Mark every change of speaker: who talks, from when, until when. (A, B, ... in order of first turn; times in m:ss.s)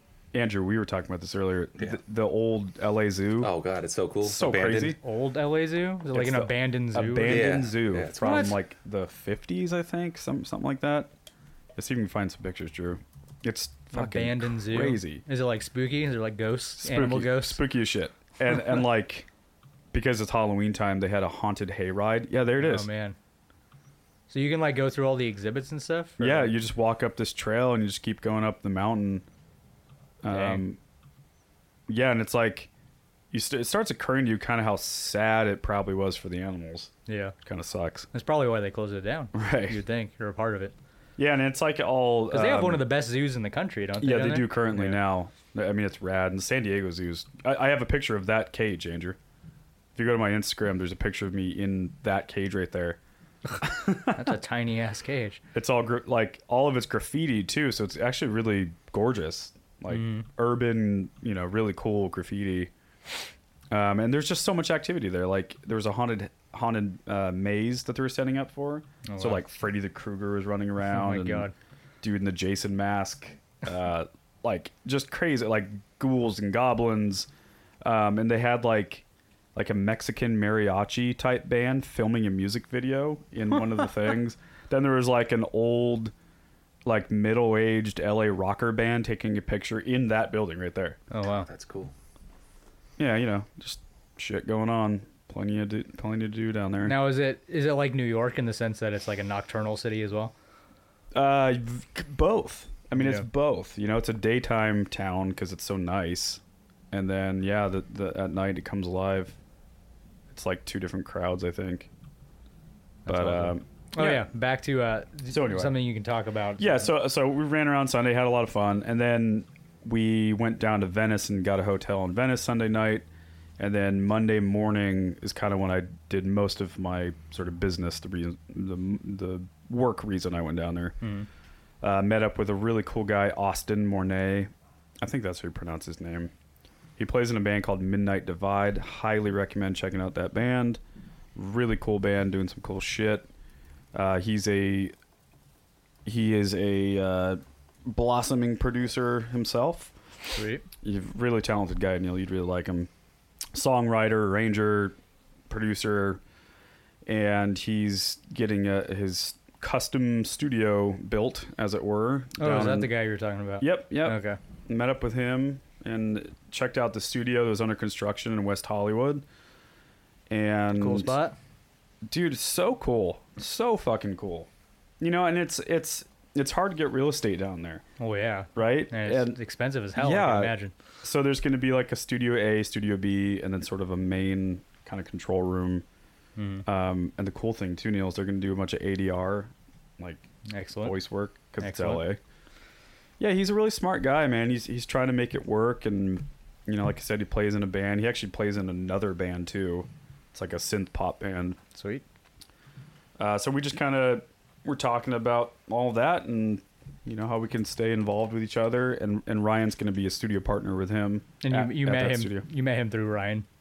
0:00.3-0:03.5 A
0:03.4-0:05.0 B
0:04.2-0:05.0 A
0:05.0-0:07.5 C
0:06.1-0:11.1 A
0:07.2-0:08.5 B
0:08.2-0:08.6 C
0:11.8-0:15.2 A
0:13.9-0:17.6 C
0:16.8-0:19.3 A
0:19.9-0:22.9 A
0:22.6-0:23.2 C
0:24.3-0:26.5 C
0:26.2-0:29.2 A
0:30.2-0:30.8 A
0:30.3-0:30.6 C
0:31.9-0:32.7 A
0:33.3-0:36.9 A
0:37.1-0:37.3 C
0:37.4-0:38.1 A
0:38.1-0:40.8 C
0:39.3-0:39.8 A
0:41.2-0:42.9 A
0:42.3-0:45.0 C
0:44.0-0:49.2 A
0:50.0-0:53.0 A
0:53.6-0:54.2 A
0:54.1-0:55.4 C
0:55.5-1:02.7 A
0:59.9-1:00.3 C
1:03.7-1:11.5 A
1:09.1-1:09.4 C
1:10.9-1:11.5 C
1:12.0-1:17.3 A
1:17.8-1:19.0 A
1:19.6-1:26.1 A
1:26.8-1:31.0 A
1:31.1-1:31.5 C
1:31.4-1:31.9 B
1:33.0-1:37.0 A
1:36.8-1:40.3 C
1:41.1-1:46.4 A
1:43.0-1:43.3 C
1:46.9-1:49.4 A
1:50.3-1:51.9 A
1:53.1-1:56.9 C
1:53.1-1:54.3 A
1:55.3-1:55.8 A
1:56.6-2:03.1 A
2:03.6-2:11.0 A
2:11.0-2:11.3 C
2:11.8-2:14.5 A
2:15.0-2:16.3 A
2:17.0-2:20.8 A
2:21.4-2:23.3 A
2:23.9-2:24.9 A
2:26.0-2:30.0 A
2:30.3-2:30.6 C
2:30.8-2:32.9 A
2:33.5-2:35.0 A
2:35.5-2:36.2 A
2:37.1-2:42.9 A
2:42.4-2:44.4 C
2:43.6-2:49.2 A
2:50.3-2:51.2 A
2:50.8-2:51.4 C
2:52.1-2:54.5 A
2:55.0-2:57.8 A
2:58.0-3:00.7 C
2:58.6-2:59.4 A
3:00.0-3:05.8 A
3:06.4-3:06.6 C
3:06.7-3:10.2 A
3:10.5-3:11.0 C
3:10.8-3:12.2 A
3:11.6-3:12.1 C
3:13.2-3:21.6 A
3:21.8-3:22.0 C
3:23.2-3:32.5 A
3:31.4-3:33.5 C